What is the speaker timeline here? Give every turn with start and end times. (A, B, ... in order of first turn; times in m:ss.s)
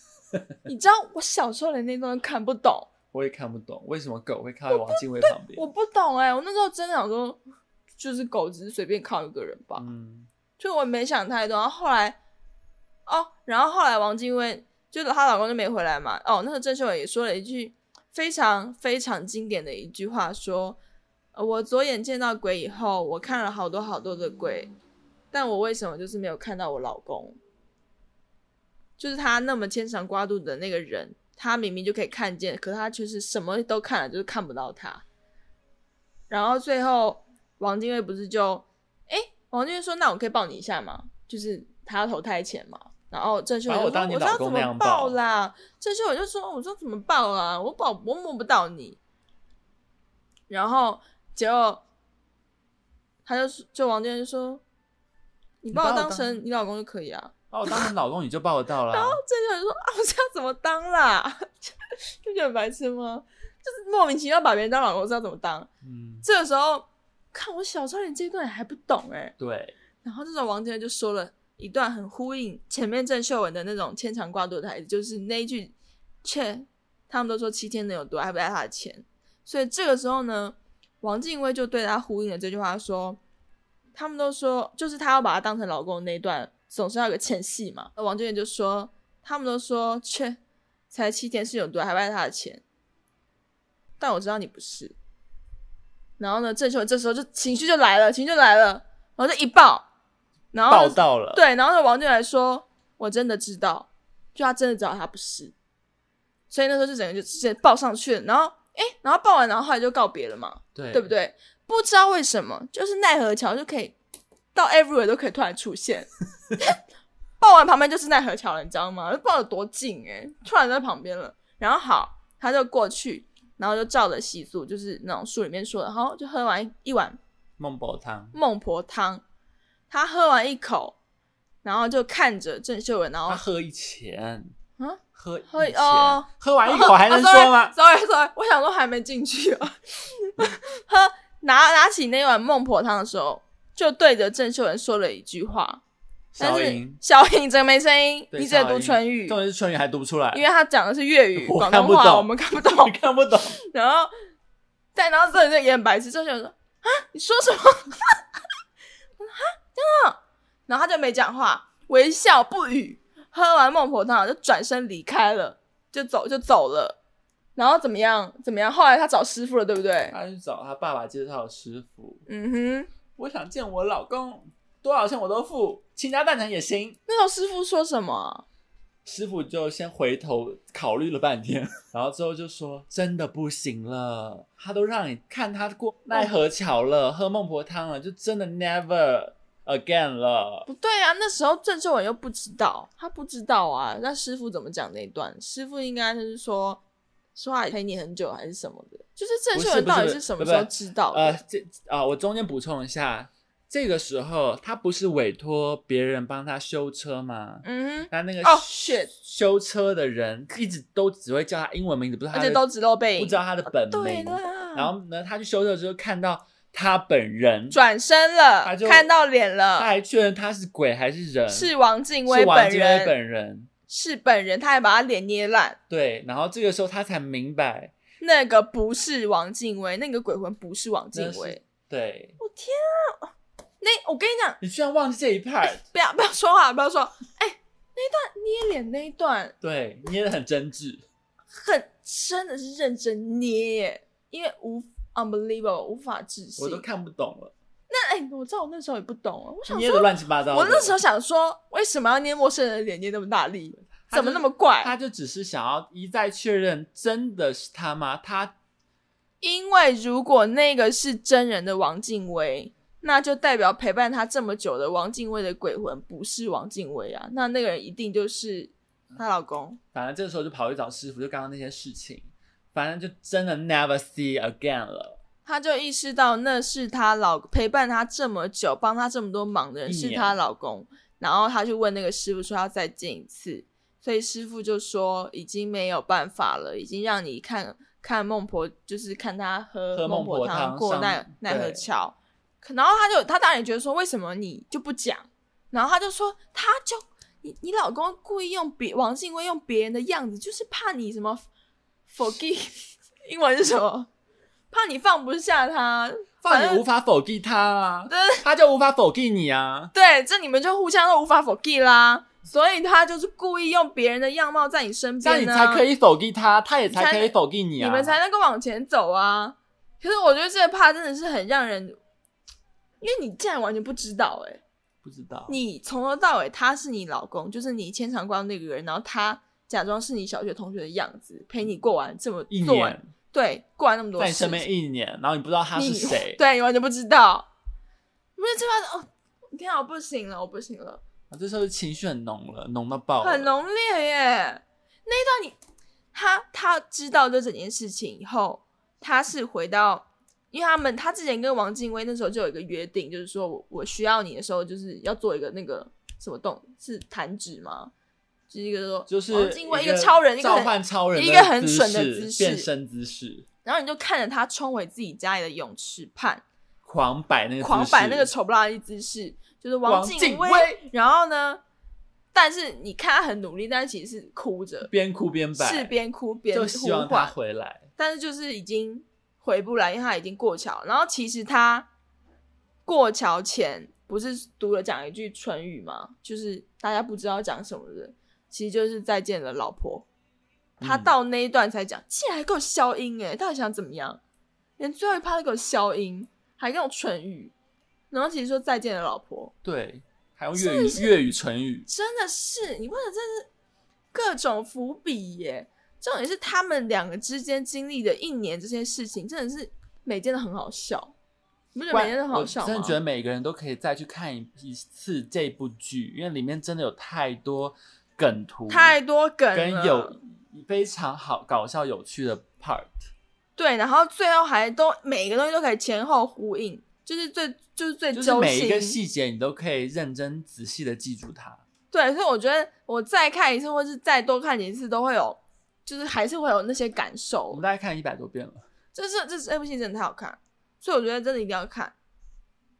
0:00.7-0:02.9 A
0:03.1-0:05.6 B
0:04.7-0:07.4 A
0:08.0-0:09.9 A
0:09.8-0:10.3 B
0:10.6-0:12.2 A
0:13.1-0:20.8 A
0:21.3-0:24.7 A
0:25.3-0:27.4 A
0:29.0-0:35.0 A
0:36.3-0:49.0 A
0:43.7-0:45.2 B
0:50.5-0:51.8 A
0:53.2-0:54.6 A
0:55.6-0:57.9 A
0:55.7-0:56.4 B
0:57.5-0:59.2 B
0:58.9-1:05.7 A
1:05.8-1:06.2 B
1:06.2-1:09.4 A
1:09.4-1:09.8 B
1:10.0-1:23.2 A
1:24.0-1:30.4 A
1:30.9-1:32.6 A
1:34.0-1:35.0 A
1:36.2-1:39.9 A
1:40.5-1:45.5 A
1:40.7-1:41.4 B
1:46.5-1:54.0 A
1:50.8-1:51.1 B
1:54.5-1:56.8 A
1:57.4-2:07.2 A
2:07.6-2:08.4 B
2:08.3-2:09.2 A
2:09.9-2:11.0 A
2:11.6-2:13.4 A
2:13.3-2:14.5 B
2:14.8-2:25.8 A
2:15.2-2:17.7 B
2:26.4-2:27.0 B
2:26.4-2:29.4 A
2:28.3-2:30.4 B
2:30.3-2:33.0 A
2:31.4-2:33.6 B
2:33.6-2:34.1 A
2:35.0-2:38.2 A
2:39.2-2:47.0 A
2:47.6-2:50.2 A
2:50.1-2:52.2 B
2:52.3-2:52.9 A
2:53.2-2:57.0 B
2:57.1-2:58.4 A
2:59.0-3:10.7 B
3:06.1-3:06.4 A
3:10.7-3:16.8 A
3:17.4-3:21.4 A
3:19.5-3:32.6 B
3:27.6-3:29.1 A
3:32.3-3:34.9 A
3:33.2-3:37.8 B
3:37.7-3:39.9 A
3:38.6-3:39.1 B
3:39.8-3:41.7 B
3:41.5-3:43.2 A
3:42.2-3:43.7 B
3:43.9-3:45.8 A
3:45.9-3:48.0 B
3:48.2-3:51.6 A
3:51.1-3:52.4 B
3:52.4-3:54.6 A
3:54.6-3:55.8 B
3:55.6-3:59.5 A
3:59.6-4:01.0 B
4:01.5-4:06.9 A
4:06.6-4:07.5 B
4:07.9-4:15.0 A
4:09.7-4:11.0 B
4:13.9-4:18.5 B
4:19.4-4:29.8 A
4:29.9-4:35.2 B
4:35.4-5:01.5 A
4:39.9-4:40.4 B
4:49.9-4:51.9 B
5:02.1-5:04.1 A
5:04.7-5:06.8 A
5:06.4-5:09.9 B
5:08.1-5:08.4 A
5:09.9-5:15.9 A
5:15.2-5:18.2 B
5:16.9-5:22.0 A
5:23.0-5:24.6 A
5:25.0-5:25.6 B
5:25.5-5:34.7 A
5:32.5-5:33.1 B
5:34.2-5:36.4 B
5:35.8-5:37.5 A
5:38.4-5:41.0 A
5:41.3-5:43.5 B
5:43.2-5:45.6 A
5:46.1-5:57.9 A
5:58.5-6:02.7 A
5:59.1-6:03.5 B
6:03.6-6:06.4 A
6:06.8-6:08.3 B
6:07.6-6:11.6 A
6:09.8-6:10.8 B
6:12.3-6:14.9 A
6:14.9-6:16.0 B
6:15.6-6:17.3 A
6:16.5-6:17.9 B
6:18.0-6:21.9 A
6:22.9-6:30.0 A
6:30.8-6:31.1 B
6:30.8-6:34.2 A
6:34.8-6:37.5 A
6:38.1-6:39.5 A
6:39.6-6:41.9 B
6:40.5-6:41.1 A
6:41.9-6:43.5 A
6:44.1-6:51.2 A
6:51.7-6:53.0 A
6:51.9-6:59.0 B
6:58.7-7:00.2 A
6:59.5-7:03.1 B
7:03.6-7:09.0 A
7:08.1-7:11.6 B
7:11.9-7:17.6 A
7:17.5-7:18.6 B
7:18.9-7:22.0 A